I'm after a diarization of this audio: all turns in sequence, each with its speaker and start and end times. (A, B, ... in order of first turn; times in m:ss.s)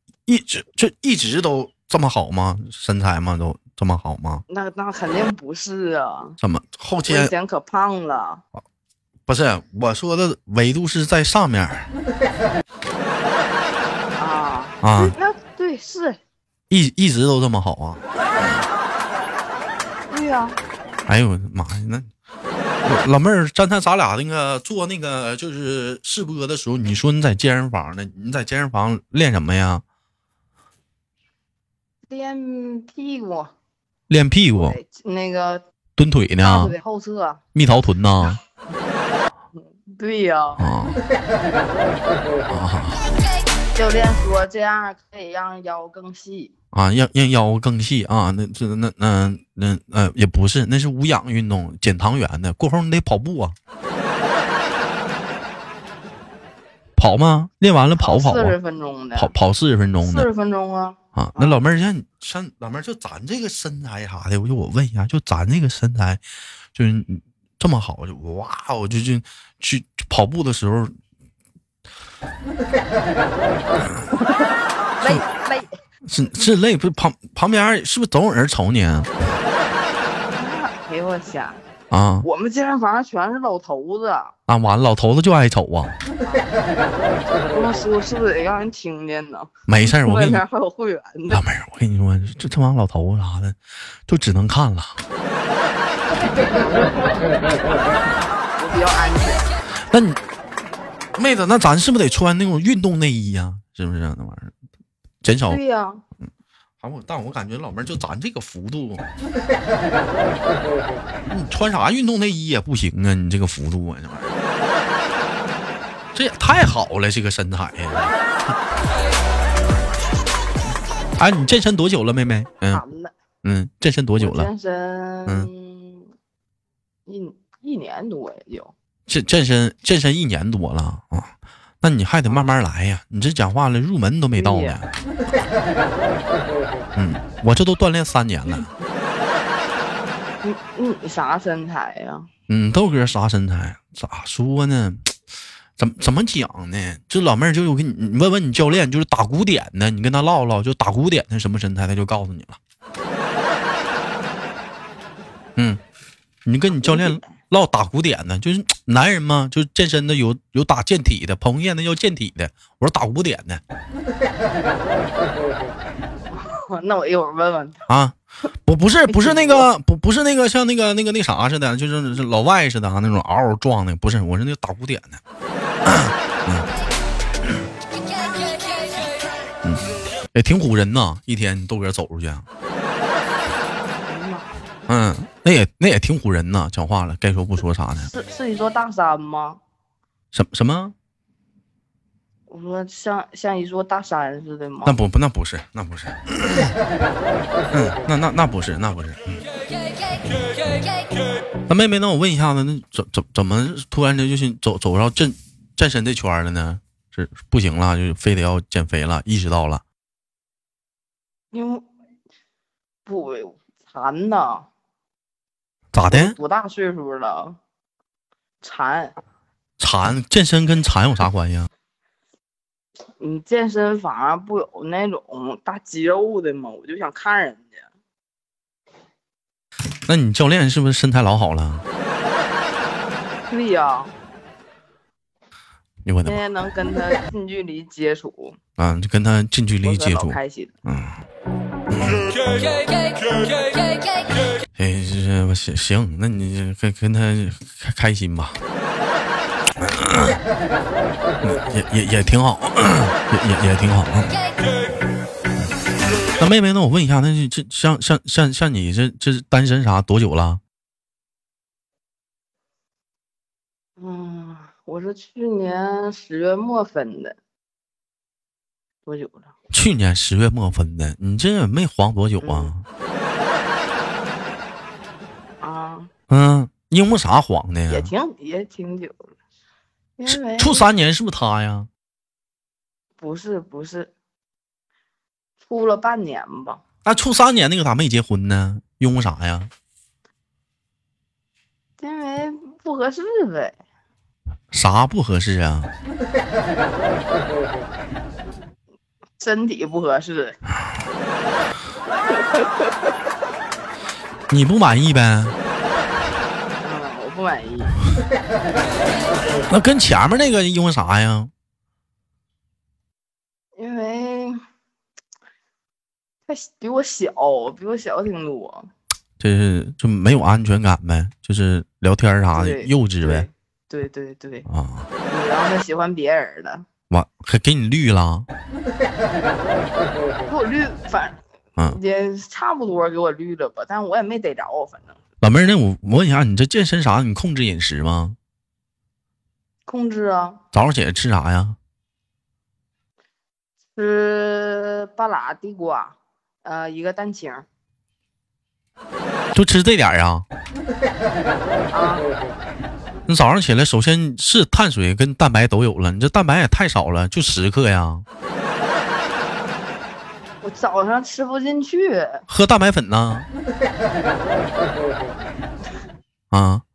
0:00.3-0:04.4 A
0:04.5-0:06.4 B
0:06.4-0:07.3 A
0:07.1-0:08.4 B
0:09.3-0:11.9 A
0:14.2-0:16.2 B
0:14.8-0:15.1 A
0:16.7-0:18.0 A
0:20.1-0:20.6 B
0:21.1-0:22.1 A
0:22.8-0:29.8 A
0:32.1-0:33.5 B
0:34.1-0:34.8 A
0:34.6-0:35.6 B
0:36.0-0:36.8 A
0:36.4-0:37.4 B
0:37.5-0:38.4 A
0:39.6-0:40.7 B
0:40.6-0:41.0 A
0:42.5-0:43.1 A
0:43.8-0:46.5 B
0:46.7-0:53.6 A
0:57.0-0:58.6 A
0:58.0-0:59.3 B
0:59.2-1:00.3 A
1:00.0-1:01.6 B
1:01.2-1:06.2 A
1:06.7-1:10.9 A
1:13.6-1:15.7 B
1:16.0-1:19.1 A
1:20.4-1:21.6 B
1:21.9-1:22.3 A
1:22.2-1:24.3 B
1:24.5-1:26.0 A
1:26.2-1:26.5 B
1:27.4-1:31.4 B
1:29.7-1:30.4 A
1:31.3-1:35.0 A
1:38.4-1:39.5 B
1:39.9-1:40.2 A
1:41.2-1:44.5 A
1:45.2-1:45.6 A
1:45.5-1:46.0 B
1:46.8-1:49.1 A
1:51.3-1:54.3 A
1:56.1-1:58.5 A
2:01.2-2:02.8 A
2:02.7-2:03.1 B
2:03.4-2:04.5 A
2:04.2-2:06.1 B
2:07.1-2:08.7 B
2:09.1-2:14.9 A
2:14.3-2:14.8 B
2:17.0-2:18.7 A
2:20.4-2:22.3 B
2:22.5-2:25.1 A
2:25.8-2:32.6 A
2:36.4-2:43.6 A
2:36.8-2:37.3 B
2:46.3-2:47.8 B
2:47.9-2:55.2 A
2:49.1-2:49.7 B
2:55.8-2:56.7 A
2:59.6-3:02.5 A
3:04.1-3:04.6 B
3:04.9-3:08.1 A
3:08.1-3:09.6 B
3:10.3-3:11.0 A
3:12.5-3:15.0 B
3:14.8-3:16.8 A
3:17.7-3:19.4 A
3:21.7-3:29.8 A
3:31.5-3:31.9 B
3:33.1-3:34.7 B
3:35.9-3:36.4 A
3:36.1-3:37.6 B
3:38.6-3:39.2 B
3:39.8-3:41.7 A
3:43.2-3:47.9 B
3:50.1-3:51.8 A
3:53.5-3:54.1 B
3:56.0-3:56.4 A
3:56.2-3:58.6 B
3:58.8-4:01.2 A
3:59.8-4:00.7 B
4:01.9-4:02.4 A
4:04.8-4:08.6 A
4:09.8-4:10.4 A
4:11.4-4:14.4 A
4:16.4-4:20.6 A
4:24.0-4:27.4 B
4:29.1-4:29.5 B
4:29.7-4:32.8 A
4:32.4-4:32.7 B
4:35.6-4:36.1 B
4:36.3-4:38.1 A
4:37.9-4:39.3 B
4:40.2-4:40.9 B
4:40.3-4:41.9 A
4:43.2-4:44.1 B
4:45.6-4:46.8 B
4:47.0-4:49.7 A
4:52.0-4:53.8 B
4:54.7-4:55.9 A
4:59.4-5:00.6 B
5:02.4-5:03.1 B
5:04.5-5:05.6 A
5:06.8-5:08.0 B
5:09.7-5:11.5 A
5:13.8-5:14.6 B
5:16.5-5:18.9 B
5:19.4-5:23.5 A
5:22.5-5:24.7 B
5:24.7-5:25.1 A
5:25.3-5:26.9 B
5:27.1-5:28.5 A
5:30.5-5:35.2 B
5:35.4-5:38.4 A
5:39.9-5:40.6 B
5:40.7-5:41.8 A
5:44.0-5:47.7 B
5:49.5-5:50.5 A
5:51.9-5:52.3 B
5:53.3-5:58.2 A
6:00.6-6:02.4 B
6:02.5-6:03.5 A
6:06.5-6:06.8 A